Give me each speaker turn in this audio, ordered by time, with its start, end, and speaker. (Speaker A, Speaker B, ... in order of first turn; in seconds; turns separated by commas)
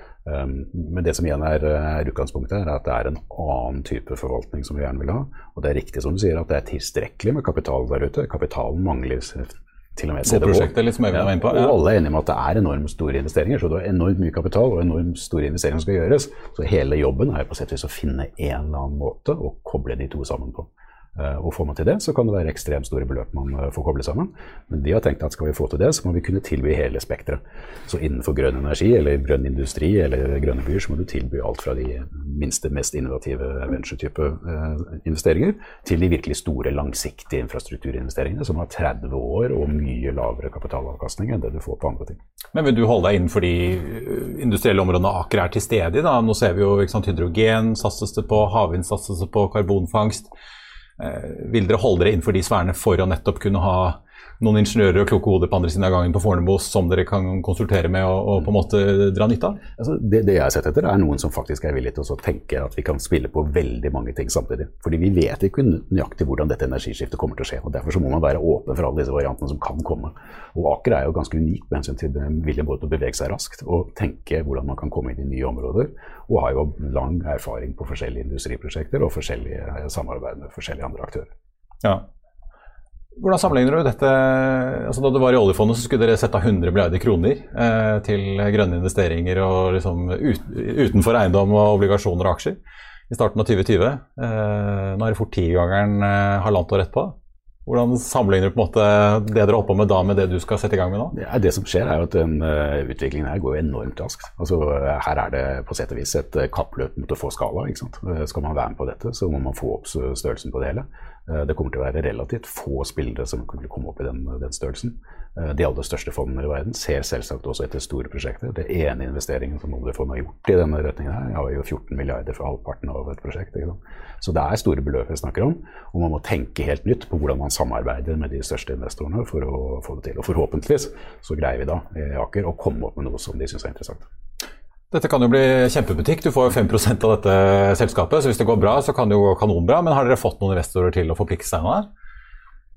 Speaker A: 0.2-42.2, Speaker B: 10.2-11.8, Speaker B: 42.5-50.3, Speaker B: 51.0-59.6, Speaker A: 59.8-81.3, Speaker B: 83.2-92.6, Speaker B: 93.1-97.1, Speaker B: 97.7-101.1, Speaker A: 101.1-134.1, Speaker B: 134.9-141.9